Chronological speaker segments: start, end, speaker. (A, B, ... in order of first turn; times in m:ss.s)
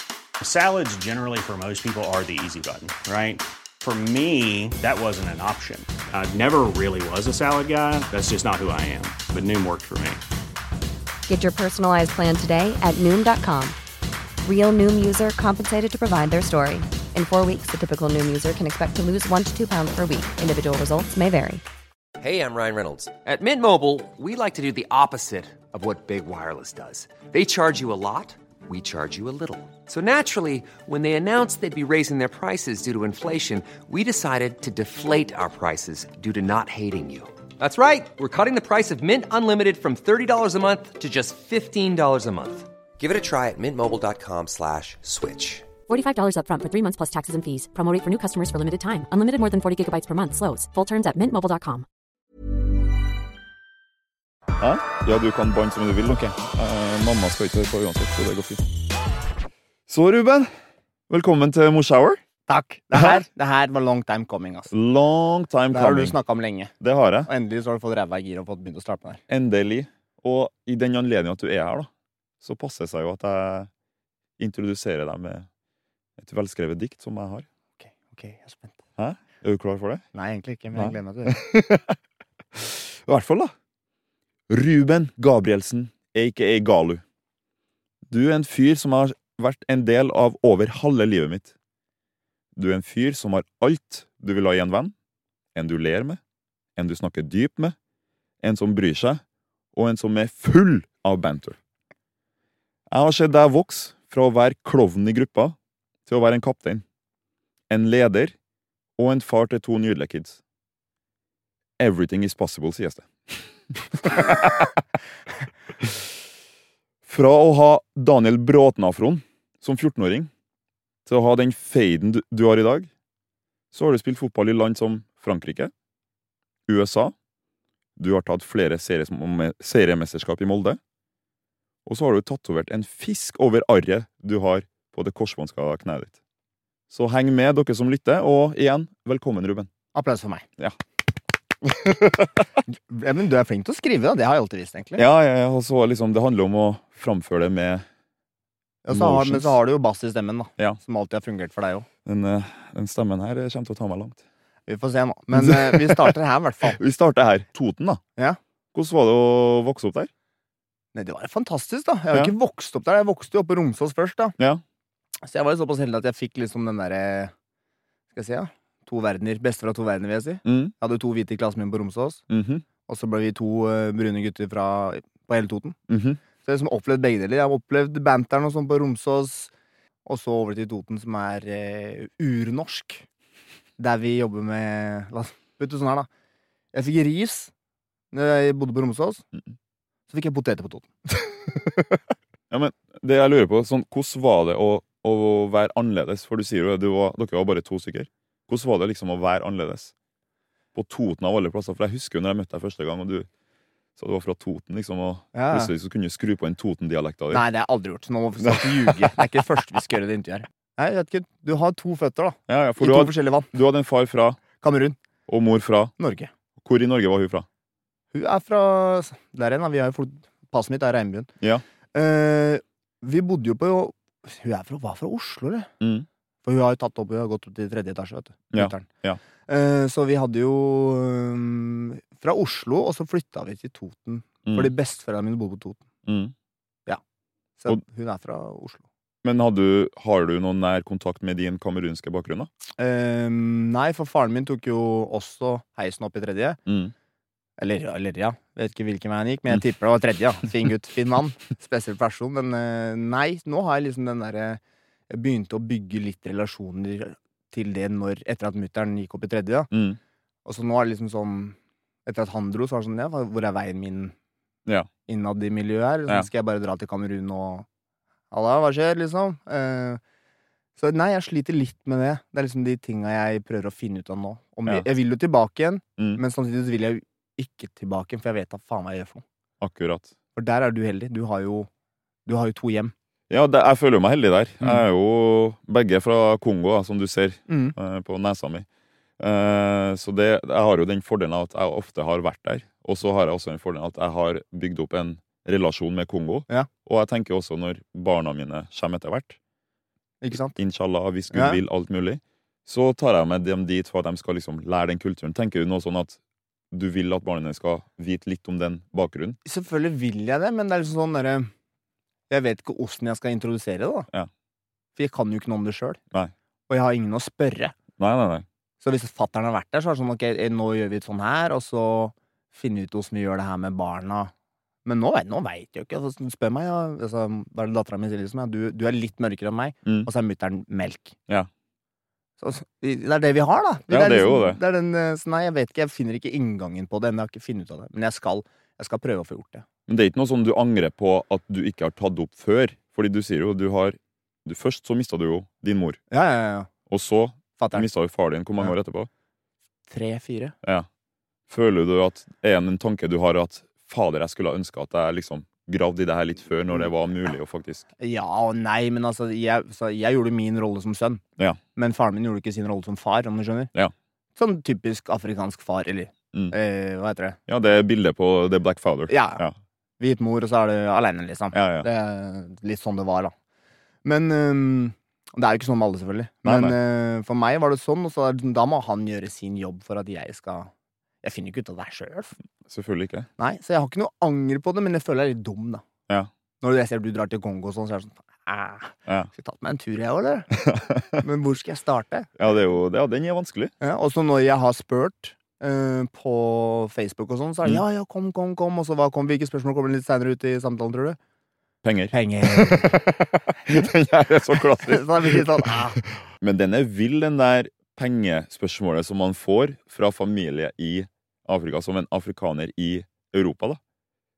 0:00.4-0:10.2 A
0:11.3-0:13.8 B
0:14.4-0:21.6 B
0:22.2-0:45.7 C
0:45.9-0:51.8 D
0:54.6-0:58.6 E
0:56.1-0:56.3 F
0:59.9-1:00.5 E
1:01.1-1:02.2 E
1:02.5-1:04.7 F
1:02.9-1:03.2 E
1:04.7-1:06.2 E
1:05.7-1:06.7 F
1:06.8-1:07.3 E
1:07.2-1:09.2 F
1:09.3-1:11.9 E
1:12.4-1:13.7 E
1:14.4-1:15.5 E
1:16.2-1:17.4 E
1:17.8-1:18.8 F
1:19.0-1:20.0 E
1:20.1-1:21.4 F
1:20.7-1:21.9 E
1:22.5-1:23.5 E
1:24.5-1:27.0 E
1:28.1-1:31.5 E
1:32.6-1:34.9 E
1:35.5-1:36.2 E
1:36.8-1:37.8 E
1:38.4-1:39.2 E
1:39.7-1:41.6 E
1:42.9-1:45.5 E
1:46.0-1:46.8 E
1:47.7-1:48.3 E
1:49.0-1:50.4 E
1:51.8-1:53.5 E
1:54.0-1:54.7 E
1:55.8-1:56.1 E
1:57.0-2:00.3 E
2:01.0-2:02.9 E
2:03.7-2:05.7 E
2:06.7-2:07.1 E
2:08.0-2:10.8 E
2:11.8-2:16.2 E
2:16.9-2:19.7 E
2:19.9-2:20.4 F
2:21.6-2:22.3 E
2:22.7-2:25.0 F
2:25.0-2:27.8 E
2:28.8-2:31.9 F
2:28.9-2:29.6 E
2:32.0-2:34.2 E
2:34.7-2:36.8 F
2:35.3-2:36.2 E
2:36.7-2:38.0 E
2:38.7-2:40.1 E
2:40.9-2:44.4 F
2:45.2-2:47.3 F
2:48.1-2:52.2 F
2:50.4-2:50.7 E
2:52.3-2:52.6 E
2:52.8-2:55.8 F
2:55.9-2:56.2 E
2:56.4-2:59.5 F
3:00.0-3:03.0 F
3:03.8-3:06.1 F
3:06.7-3:07.5 F
3:08.1-3:09.2 F
3:10.1-3:11.2 F
3:12.5-3:19.9 E
3:20.7-3:23.3 E
3:24.0-3:27.4 E
3:25.3-3:25.7 F
3:27.3-3:33.5 F
3:28.4-3:29.2 E
3:32.5-3:34.4 E
3:34.6-3:35.0 F
3:35.3-3:35.9 E
3:36.0-3:36.3 F
3:36.6-3:37.4 E
3:38.1-3:41.3 F
3:41.9-3:45.7 F
3:45.8-3:46.1 E
3:46.4-3:48.9 F
3:48.5-3:49.2 E
3:49.5-3:55.8 F
3:54.4-3:54.7 E
3:56.0-3:56.3 E
3:57.6-3:58.8 F
3:59.2-4:02.5 E
4:02.8-4:06.6 F
4:06.7-4:06.9 E
4:07.6-4:19.7 F
4:19.7-4:20.0 E
4:20.4-4:24.1 F
4:25.1-4:27.6 F
4:28.3-4:30.0 F
4:30.8-4:39.2 F
4:39.6-4:40.1 E
4:40.4-4:41.7 F
4:42.2-4:42.9 F
4:43.3-4:48.6 E
4:47.5-4:47.7 F
4:49.2-4:59.4 E
5:00.2-5:00.6 F
5:00.3-5:06.2 E
5:01.3-5:01.6 F
5:06.7-5:09.4 E
5:09.4-5:11.5 F
5:12.3-5:14.1 F
5:15.0-5:16.0 F
5:16.7-5:17.7 F
5:18.0-5:18.4 E
5:18.8-5:24.3 F
5:24.8-5:31.2 F
5:32.4-5:39.6 F
5:33.9-5:34.6 E
5:39.9-5:46.0 E
5:46.1-5:46.7 F
5:46.9-5:49.1 E
5:47.6-5:47.9 F
5:49.9-5:50.5 F
5:51.5-5:57.9 E
5:58.0-6:01.2 F
6:01.7-6:03.7 F
6:04.4-6:07.4 F
6:07.5-6:09.5 E
6:09.1-6:09.4 F
6:10.0-6:13.3 F
6:11.5-6:11.9 E
6:14.0-6:20.7 F
6:16.4-6:16.8 E
6:21.2-6:22.3 F
6:22.7-6:23.3 E
6:23.4-6:25.8 F
6:26.6-6:30.5 F
6:30.6-6:31.1 E
6:31.2-6:32.3 F
6:32.4-6:33.7 E
6:33.8-6:41.2 F
6:41.8-6:53.8 E
6:42.1-6:43.0 F
6:44.8-6:46.0 F